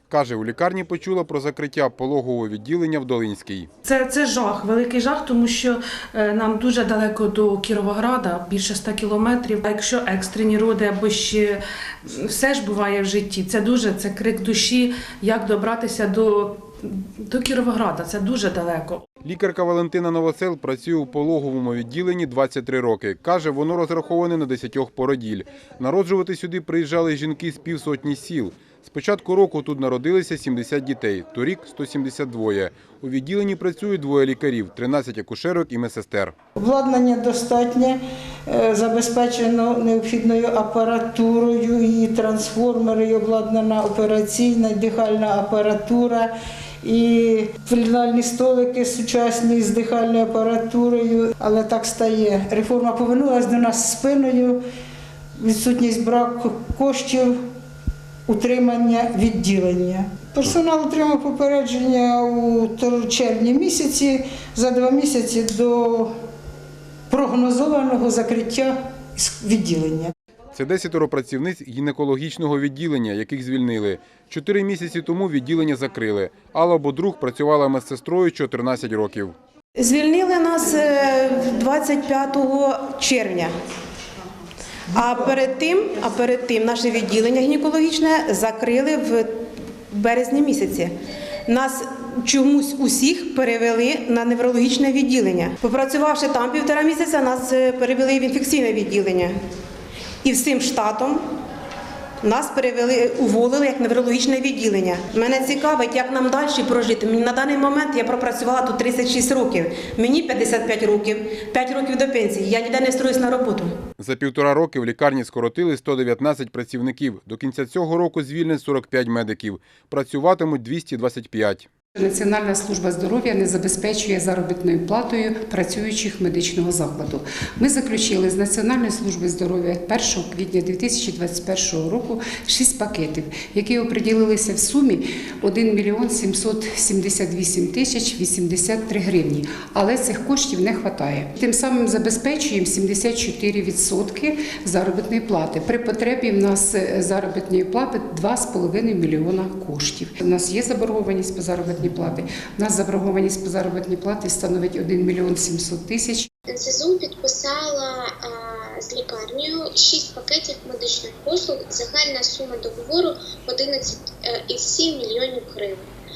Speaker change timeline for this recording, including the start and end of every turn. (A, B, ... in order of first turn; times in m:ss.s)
0:00.1-0:03.7 A
0:03.8-0:19.0 B
0:19.2-0:36.3 A
0:36.6-0:54.6 C
0:55.4-0:57.4 C
0:58.3-1:06.1 C
1:07.1-1:10.1 C
1:10.5-1:19.3 A
1:19.8-1:23.5 D
1:24.9-1:39.4 D
1:40.2-1:41.3 D
1:42.2-1:53.7 D
1:54.0-2:01.7 A
2:01.9-2:36.3 E
2:36.5-2:45.9 F